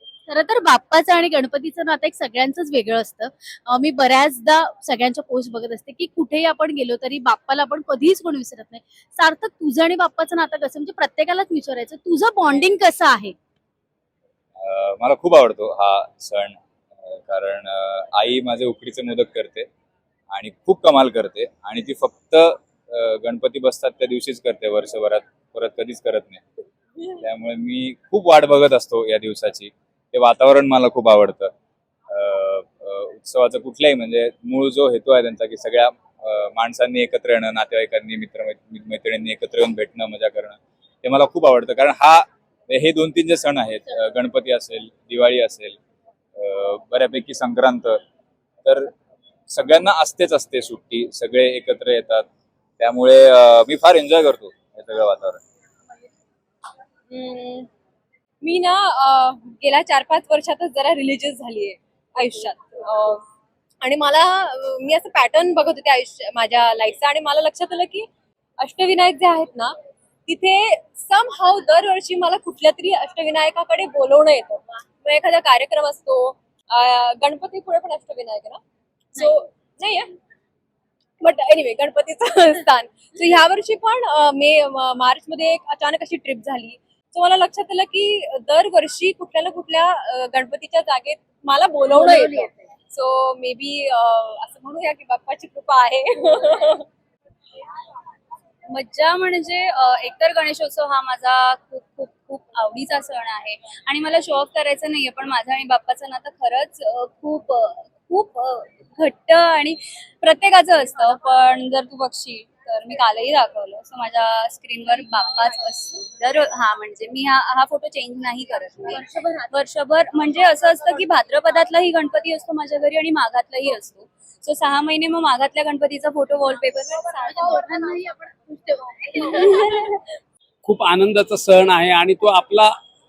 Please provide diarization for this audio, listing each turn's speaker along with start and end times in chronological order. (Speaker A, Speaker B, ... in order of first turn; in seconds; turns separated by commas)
Speaker A: 0.3-13.3, Speaker B: 14.6-19.7, Speaker B: 20.3-26.4, Speaker B: 27.1-31.5, Speaker B: 32.1-45.8, Speaker B: 46.4-48.0, Speaker B: 48.6-48.9, Speaker B: 49.5-52.2, Speaker B: 52.8-55.4, Speaker C: 57.1-57.7, Speaker C: 58.4-63.2, Speaker C: 63.8-68.1, Speaker C: 68.6-69.8, Speaker C: 70.3-78.6, Speaker C: 79.1-80.1, Speaker C: 81.2-96.9, Speaker A: 92.0-92.6, Speaker D: 98.7-127.7, Speaker A: 127.4-129.7, Speaker E: 130.6-132.8